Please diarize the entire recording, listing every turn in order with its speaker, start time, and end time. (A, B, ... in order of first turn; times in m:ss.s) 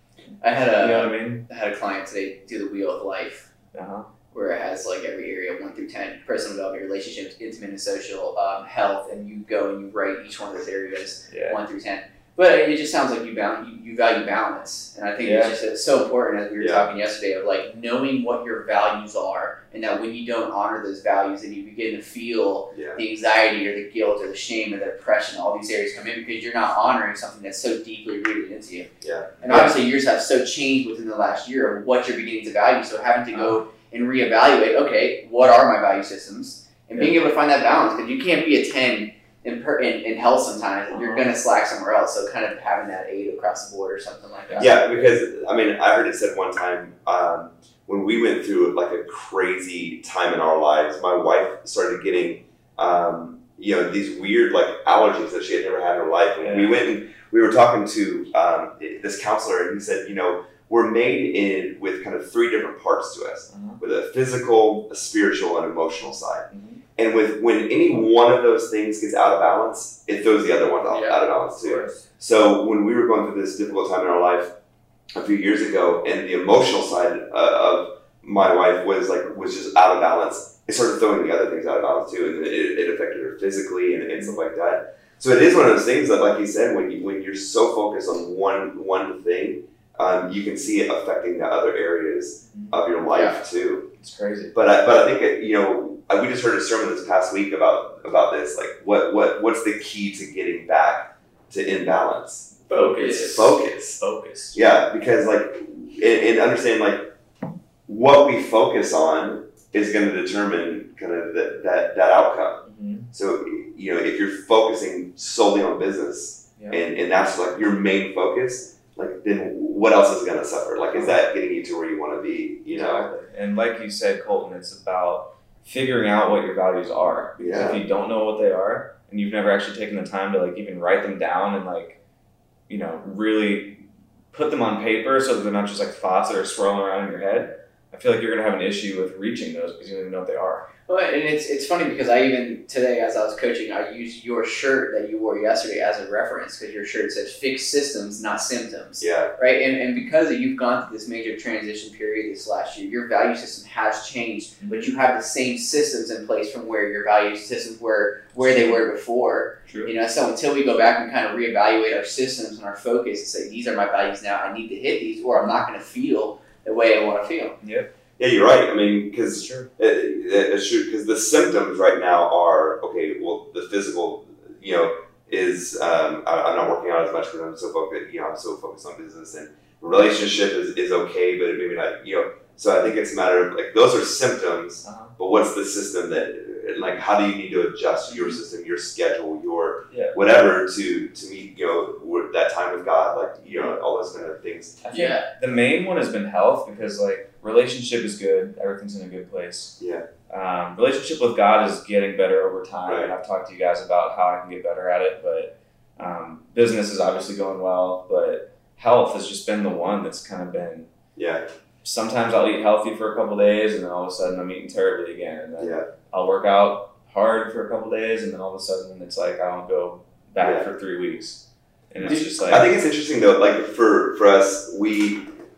0:00.4-0:03.5 A
0:00.8-0:01.5 B
0:03.7-0:04.1 B
0:04.3-0:28.9 A
0:11.3-0:11.6 B
0:15.2-0:15.6 B
0:16.6-0:16.9 C
0:22.7-0:23.0 C
0:29.0-0:29.6 C
0:29.4-0:44.8 A
0:29.5-0:29.8 B
0:33.3-0:33.6 B
0:40.9-0:41.3 B
0:44.6-1:14.5 C
0:56.4-0:56.8 B
1:03.5-1:03.8 B
1:06.5-1:06.8 B
1:10.9-1:11.2 A
1:11.6-1:11.9 B
1:15.2-1:33.9 C
1:32.5-1:32.8 B
1:33.1-1:33.4 A
1:34.0-1:34.5 B
1:34.5-1:44.0 C
1:42.7-1:44.6 B
1:42.7-1:43.3 A
1:44.5-1:47.1 C
1:47.9-2:03.1 C
1:52.6-1:53.1 B
1:56.6-1:56.8 B
2:02.7-2:12.0 B
2:07.4-2:07.8 C
2:12.7-2:20.7 B
2:20.9-2:47.6 A
2:29.0-2:29.3 C
2:34.6-2:34.9 B
2:38.4-2:38.8 B
2:47.6-2:47.9 B
2:48.2-3:14.8 C
2:49.3-2:49.7 B
3:04.8-3:05.1 B
3:14.9-3:19.8 B
3:14.9-3:15.3 A
3:19.8-3:20.0 C
3:20.3-3:30.9 B
3:22.9-3:23.1 C
3:31.2-3:31.4 C
3:31.8-3:42.7 B
3:35.6-3:35.9 C
3:40.4-3:40.7 C
3:42.0-3:45.3 C